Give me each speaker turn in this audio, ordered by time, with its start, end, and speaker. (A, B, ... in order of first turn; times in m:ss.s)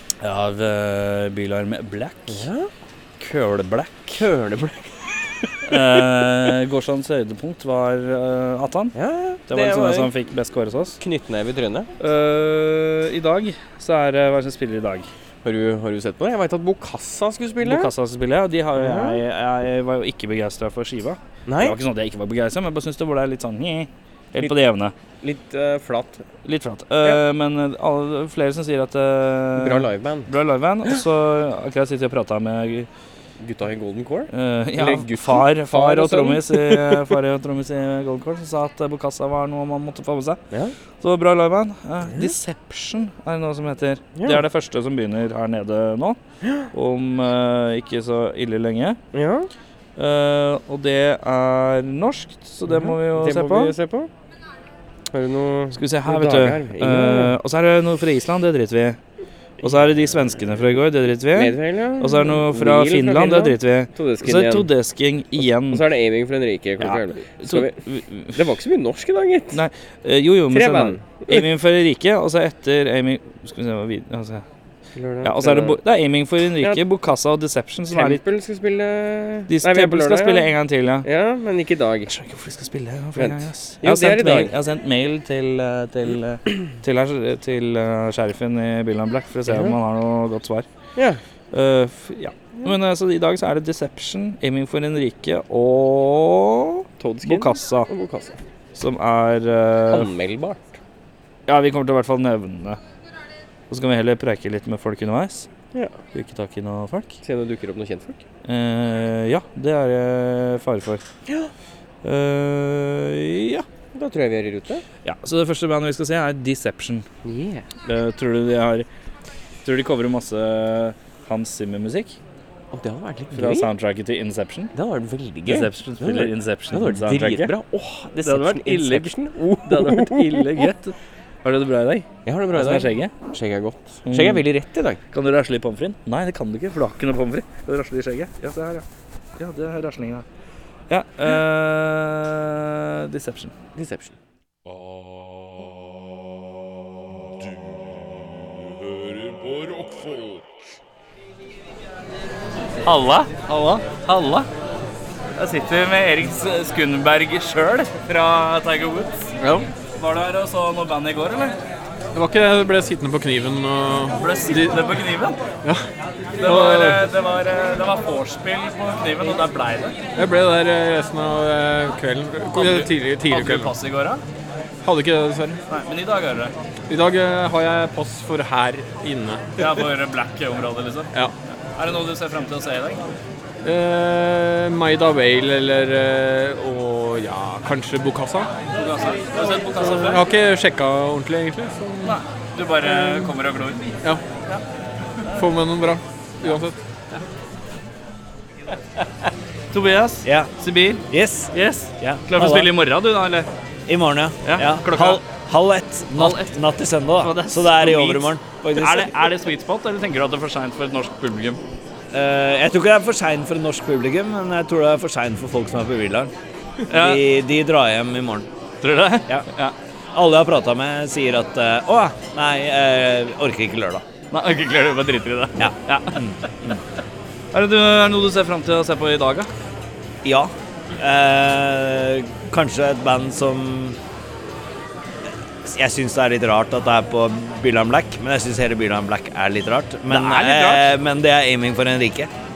0:00.2-0:02.4 A
0:02.3-0:02.7 B
0:03.2-0:04.2 A
0:04.1-0:04.9 B
0:05.6-0:08.9 A
0:08.9-0:10.1 B
0:09.5-0:11.0 A
0:11.0-0:11.9 B
0:12.0-0:15.1 A
0:15.4-0:17.9 B
0:17.6-0:24.9 A
0:18.7-0:19.2 B
0:21.4-0:21.8 B
0:25.2-0:26.2 B
0:26.4-0:32.9 A
0:29.6-0:30.3 B
0:33.4-0:37.0 B
0:34.3-0:40.4 A
0:41.0-0:46.2 A
0:44.2-0:44.4 B
0:46.4-0:46.7 B
0:46.7-0:49.0 A
0:49.1-0:49.5 B
0:50.0-0:53.7 A
0:52.7-0:54.1 B
0:55.1-0:57.4 B
0:55.7-0:59.0 A
0:59.6-1:05.8 A
1:01.3-1:04.7 B
1:05.4-1:07.8 B
1:06.8-1:08.4 A
1:08.3-1:09.6 B
1:09.5-1:14.4 A
1:10.5-1:11.5 B
1:14.9-1:15.8 B
1:15.2-1:18.2 A
1:17.9-1:20.5 B
1:19.5-1:21.0 A
1:21.0-1:22.1 B
1:22.1-1:30.6 A
1:23.2-1:24.5 B
1:29.5-1:29.8 B
1:31.5-1:37.9 A
1:37.0-1:38.4 B
1:38.7-1:40.1 A
1:39.9-1:40.8 B
1:41.5-1:42.8 A
1:43.7-1:45.5 A
1:46.1-1:47.2 A
1:47.2-1:48.2 B
1:48.4-1:51.0 A
1:51.2-1:51.5 B
1:52.0-1:53.6 A
1:53.9-1:54.8 B
1:55.0-1:57.0 A
1:57.2-1:57.6 B
1:57.8-1:58.9 A
1:59.6-2:02.2 A
2:02.7-2:03.7 B
2:03.3-2:04.7 A
2:04.7-2:10.7 B
2:05.4-2:07.5 A
2:08.2-2:09.1 A
2:09.6-2:13.1 A
2:12.2-2:15.0 B
2:14.0-2:14.4 A
2:15.1-2:18.8 A
2:19.4-2:20.2 A
2:20.9-2:23.5 A
2:23.7-2:24.2 B
2:24.6-2:26.0 C
2:27.2-2:30.5 C
2:32.8-2:34.5 A
2:35.4-2:39.2 A
2:39.4-2:39.7 D
2:40.0-2:41.6 A
2:42.1-2:44.9 D
2:44.2-2:45.4 A
2:46.4-2:50.0 A
2:46.4-2:47.1 D
2:50.2-2:53.7 D
2:52.5-2:54.2 A
2:54.8-2:55.6 D
2:55.7-2:56.5 A
2:56.9-2:59.7 D
2:59.6-3:01.1 A
3:01.7-3:03.0 A
3:03.6-3:08.5 D
3:08.7-3:10.2 A
3:09.9-3:12.2 D
3:12.0-3:14.6 A
3:12.8-3:13.3 D
3:15.3-3:16.8 D
3:19.7-3:23.5 A
3:20.2-3:20.5 E
3:21.1-3:22.8 E
3:23.9-3:29.3 E
3:24.4-3:25.2 A
3:26.2-3:26.6 A
3:27.1-3:31.6 A
3:32.1-3:36.3 E
3:36.9-3:37.2 A
3:36.9-3:38.5 E
3:38.8-3:39.7 A
3:40.1-3:44.0 E
3:44.3-3:46.8 A
3:45.6-3:46.8 E
3:47.5-3:49.5 A
3:50.2-3:54.0 E
3:55.6-4:02.3 E
4:00.1-4:00.8 A